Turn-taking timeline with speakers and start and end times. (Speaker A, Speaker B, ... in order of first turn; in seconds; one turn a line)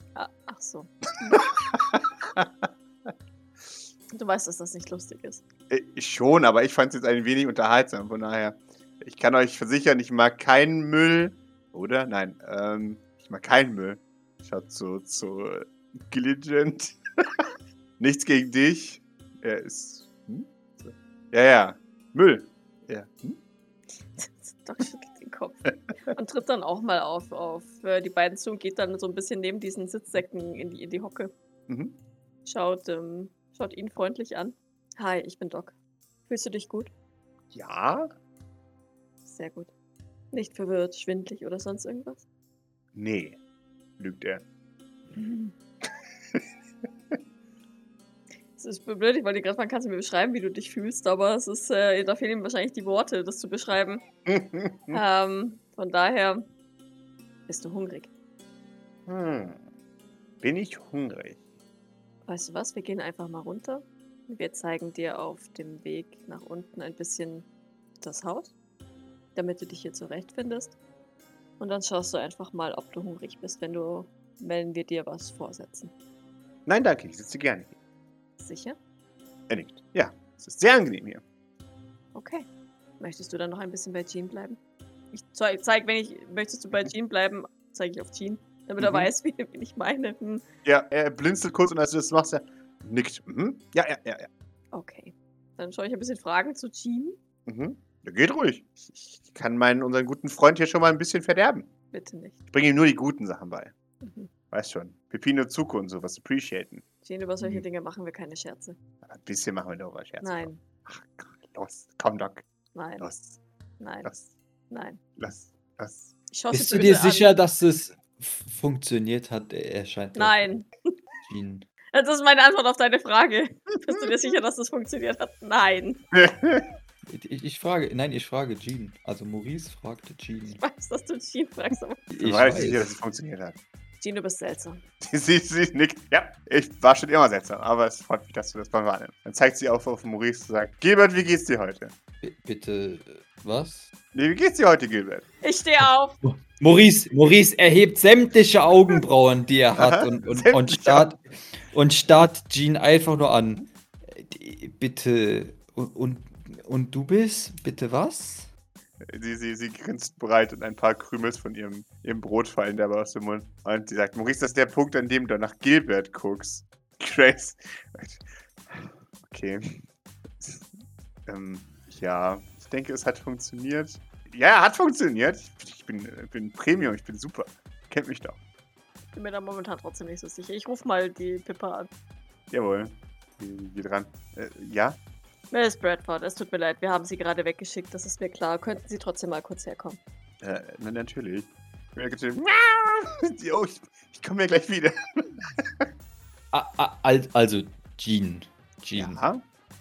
Speaker A: 0.1-1.5
Speaker B: 1.7-2.6
Speaker A: 4.1-5.4
Speaker B: 5.7-17.4
Speaker B: 18.0-23.4
Speaker A: 24.1-31.3
Speaker B: 31.7-32.0
Speaker A: 32.4-35.7
Speaker A: 36.3-36.9
Speaker B: 37.5-38.1
Speaker A: 39.2-39.7
Speaker A: 40.3-42.2
Speaker B: 42.9-43.4
Speaker B: 44.0-44.4
Speaker A: 45.1-45.5
Speaker A: 48.6-54.0
Speaker B: 54.3-55.0
Speaker A: 54.9-56.4
Speaker A: 57.5-58.1
Speaker B: 59.1-59.6
Speaker B: 60.4-61.4
Speaker A: 62.2-67.5
Speaker A: 68.0-68.5
Speaker A: 69.3-70.7
Speaker A: 71.6-75.9
Speaker B: 76.7-77.7
Speaker A: 78.4-78.8
Speaker B: 79.5-81.2
Speaker A: 82.1-82.5
Speaker A: 83.0-84.6
Speaker A: 85.1-90.4
Speaker B: 88.8-89.1
Speaker B: 90.6-94.3
Speaker A: 94.7-97.2
Speaker B: 97.5-101.7
Speaker A: 101.9-102.3
Speaker B: 102.5-103.7
Speaker A: 104.0-104.3
Speaker B: 104.5-106.8
Speaker A: 107.0-108.8
Speaker B: 109.0-112.4
Speaker A: 110.2-110.6
Speaker A: 112.7-113.1
Speaker B: 113.0-113.4
Speaker A: 113.8-114.1
Speaker B: 114.0-114.3
Speaker A: 114.7-115.0
Speaker B: 115.2-116.1
Speaker A: 116.3-117.3
Speaker C: 116.5-120.5
Speaker A: 120.2-120.9
Speaker C: 121.2-121.6
Speaker A: 121.9-126.0
Speaker B: 126.1-126.7
Speaker C: 127.1-130.6
Speaker A: 130.5-132.1
Speaker C: 132.1-132.9
Speaker B: 132.2-133.6
Speaker A: 134.0-134.8
Speaker B: 135.0-141.9
Speaker C: 142.2-143.9
Speaker B: 144.1-145.2
Speaker A: 145.4-146.2
Speaker C: 146.2-158.5
Speaker B: 149.8-151.1
Speaker B: 159.1-169.8
Speaker B: 171.3-178.4
Speaker A: 179.1-181.9
Speaker B: 182.5-185.0
Speaker A: 185.5-190.0
Speaker B: 190.4-195.9
Speaker C: 196.5-199.2
Speaker B: 198.9-199.4